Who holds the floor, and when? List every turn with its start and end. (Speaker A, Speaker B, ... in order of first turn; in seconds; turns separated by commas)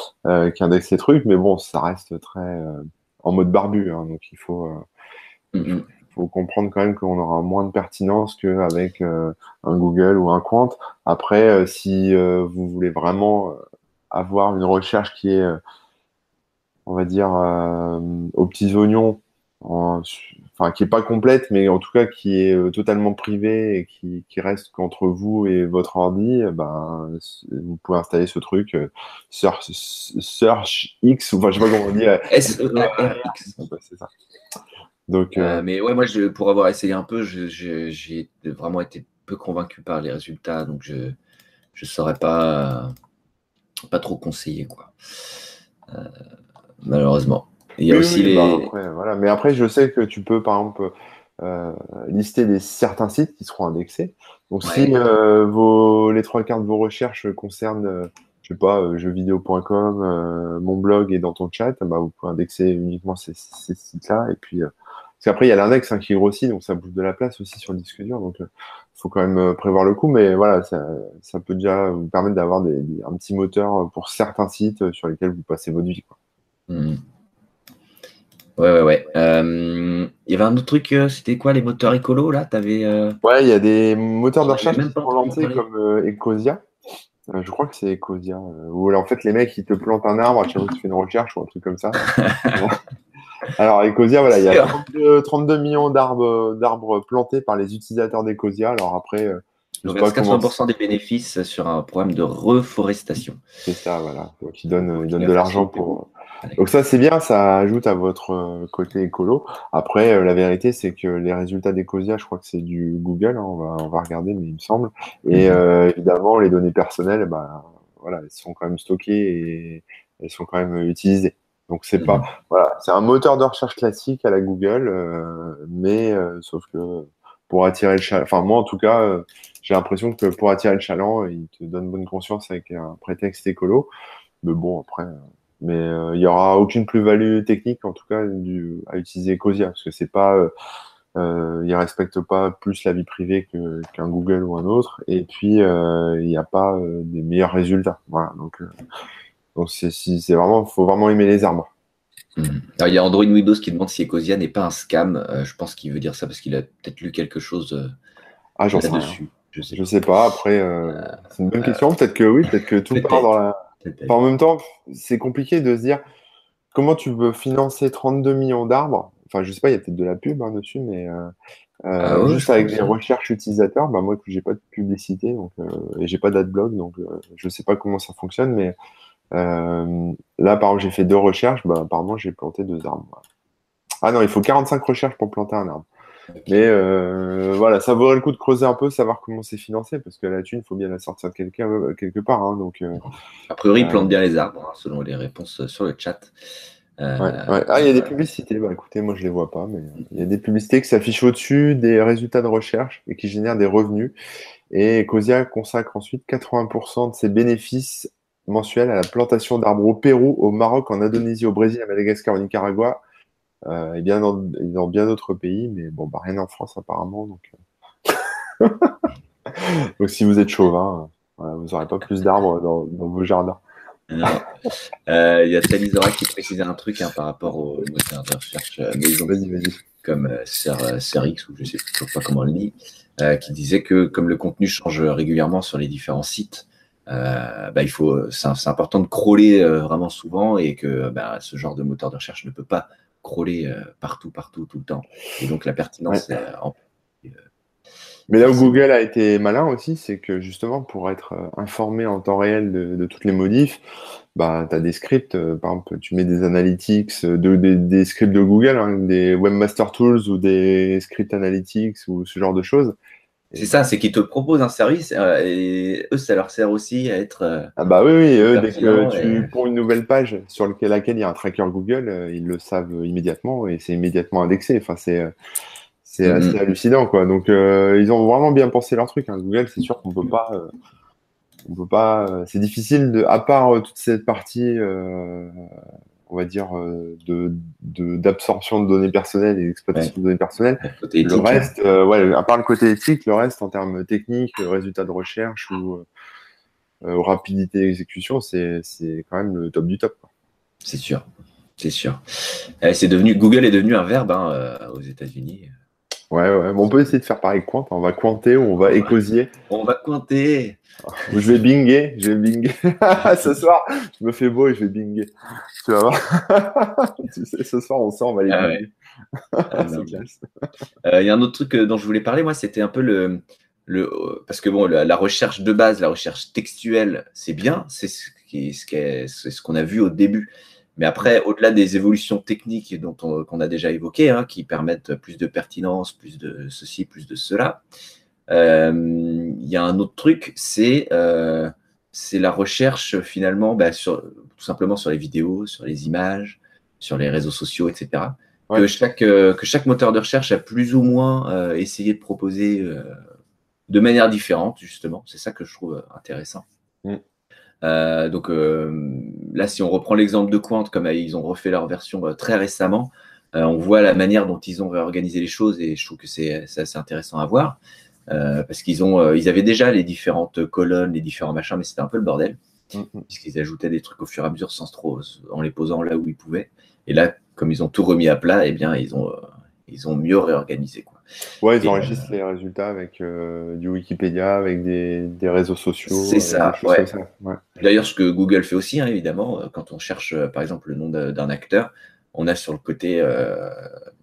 Speaker A: 0.3-4.8, Speaker B: 5.5-5.9, Speaker A: 5.6-13.6, Speaker A: 14.1-15.6, Speaker A: 16.9-34.1, Speaker B: 32.3-33.6, Speaker A: 35.1-35.6, Speaker B: 35.4-41.2, Speaker B: 41.7-42.9, Speaker B: 43.9-45.0, Speaker B: 46.8-48.7, Speaker A: 47.9-76.1, Speaker B: 54.6-54.9, Speaker B: 76.7-77.0, Speaker B: 78.6-83.2, Speaker A: 83.2-86.6, Speaker B: 84.4-85.6, Speaker A: 87.3-92.8, Speaker B: 92.0-92.7, Speaker A: 93.6-100.5, Speaker B: 94.3-94.8, Speaker B: 99.8-103.4, Speaker A: 103.7-133.9, Speaker B: 104.7-106.7, Speaker B: 115.3-115.6, Speaker B: 122.0-122.3, Speaker A: 134.4-140.5, Speaker A: 141.2-148.7, Speaker A: 149.6-151.7, Speaker B: 152.4-157.9, Speaker A: 158.6-159.2, Speaker B: 158.7-159.8, Speaker A: 159.7-163.6, Speaker B: 160.9-161.8, Speaker B: 162.9-163.3, Speaker B: 163.8-164.2, Speaker A: 164.1-166.0, Speaker A: 166.7-171.3, Speaker A: 171.9-178.8, Speaker B: 172.0-172.9, Speaker A: 179.3-183.2, Speaker A: 184.0-185.9, Speaker B: 186.3-186.6, Speaker A: 186.5-193.1, Speaker B: 193.5-196.3, Speaker A: 193.8-194.1, Speaker B: 197.0-198.2, Speaker A: 197.2-204.2, Speaker A: 204.7-213.0, Speaker A: 213.7-217.5, Speaker A: 218.1-223.6, Speaker B: 224.1-224.5, Speaker B: 225.1-229.4, Speaker A: 229.3-229.8, Speaker B: 230.0-247.4, Speaker A: 248.3-253.8, Speaker B: 248.4-248.8, Speaker A: 254.4-263.0, Speaker B: 263.6-267.7, Speaker A: 267.8-275.3, Speaker B: 268.4-269.5, Speaker A: 276.0-280.7, Speaker B: 276.2-276.6, Speaker A: 281.7-285.7, Speaker A: 286.3-296.1, Speaker B: 290.8-291.7, Speaker A: 297.0-300.3, Speaker B: 300.8-301.3, Speaker B: 301.8-305.7, Speaker A: 306.3-309.5, Speaker B: 308.8-309.1, Speaker B: 309.7-311.3, Speaker A: 311.2-318.9, Speaker B: 318.5-318.8, Speaker A: 319.5-320.4, Speaker B: 319.7-320.2, Speaker B: 321.0-337.8, Speaker B: 338.5-353.2, Speaker B: 353.9-356.6, Speaker B: 357.8-367.8, Speaker B: 368.3-372.6, Speaker A: 372.9-373.2, Speaker B: 373.3-381.2, Speaker A: 381.6-387.6, Speaker B: 381.8-382.3, Speaker B: 386.1-387.1, Speaker B: 387.8-393.9